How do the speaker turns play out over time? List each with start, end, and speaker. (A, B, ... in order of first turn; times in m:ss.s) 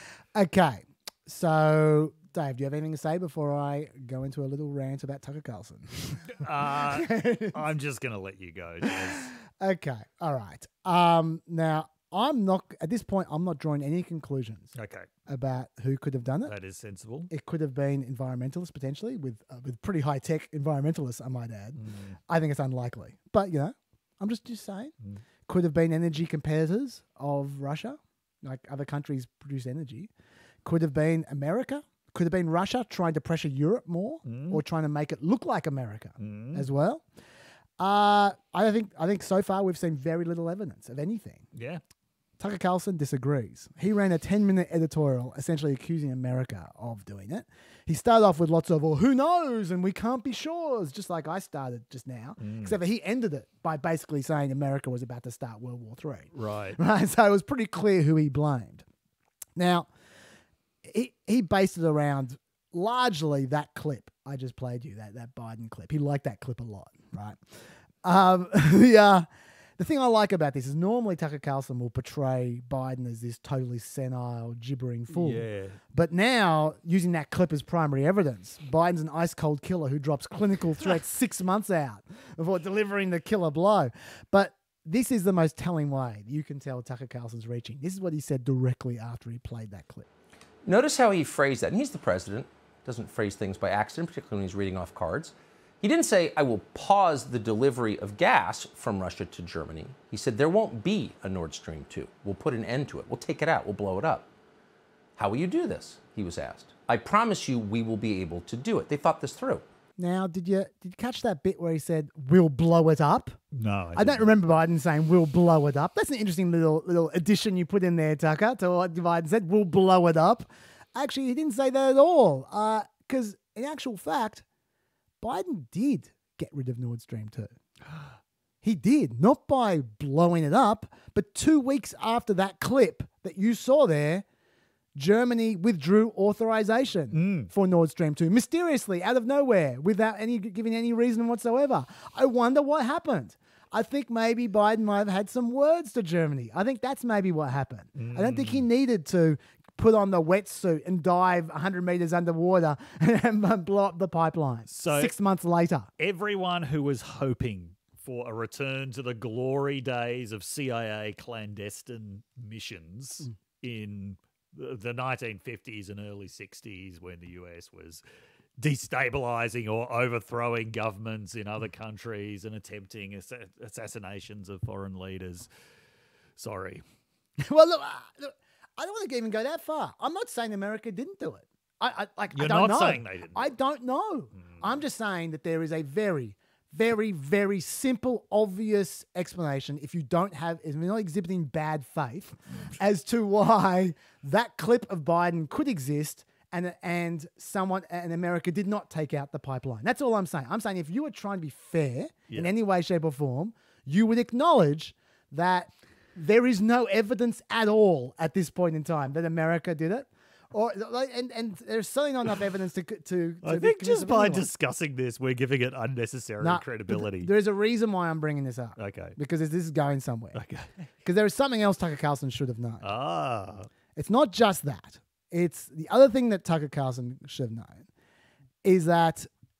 0:00.3-0:07.6 A
0:06.4-0:09.3 B
0:08.8-0:14.7 A
0:14.8-0:15.1 B
0:15.3-0:16.5 A
0:16.5-0:17.3 B
0:17.3-0:24.9 A
0:21.8-0:22.2 B
0:25.5-0:30.1 A
0:30.6-0:37.0 A
0:34.2-0:34.6 B
0:36.2-0:36.7 B
0:37.8-0:41.4 A
0:41.5-0:41.8 B
0:42.4-0:58.8 A
0:52.4-0:52.8 B
0:56.3-0:56.8 B
0:59.6-0:59.9 A
1:00.8-1:09.3 A
1:09.8-1:30.1 A
1:15.1-1:15.8 B
1:30.6-1:44.3 C
1:45.2-1:49.6 C
1:50.0-1:53.4 A
1:53.5-1:54.3 B
1:54.0-2:04.4 A
2:05.2-2:07.6 A
2:08.6-2:14.2 A
2:15.0-2:35.9 A
2:17.1-2:17.5 B
2:28.0-2:28.6 B
2:34.7-2:35.1 B
2:36.0-2:48.0 B
2:48.6-2:55.5 B
2:56.4-2:56.8 B
2:57.4-3:34.5 A
3:02.3-3:03.5 B
3:04.4-3:04.6 B
3:33.4-3:37.3 B
3:36.4-3:40.4 A
3:38.8-3:39.2 B
3:40.3-3:40.7 B
3:41.0-3:42.9 A
3:42.8-3:43.7 B
3:44.0-3:47.9 A
3:48.6-3:49.3 A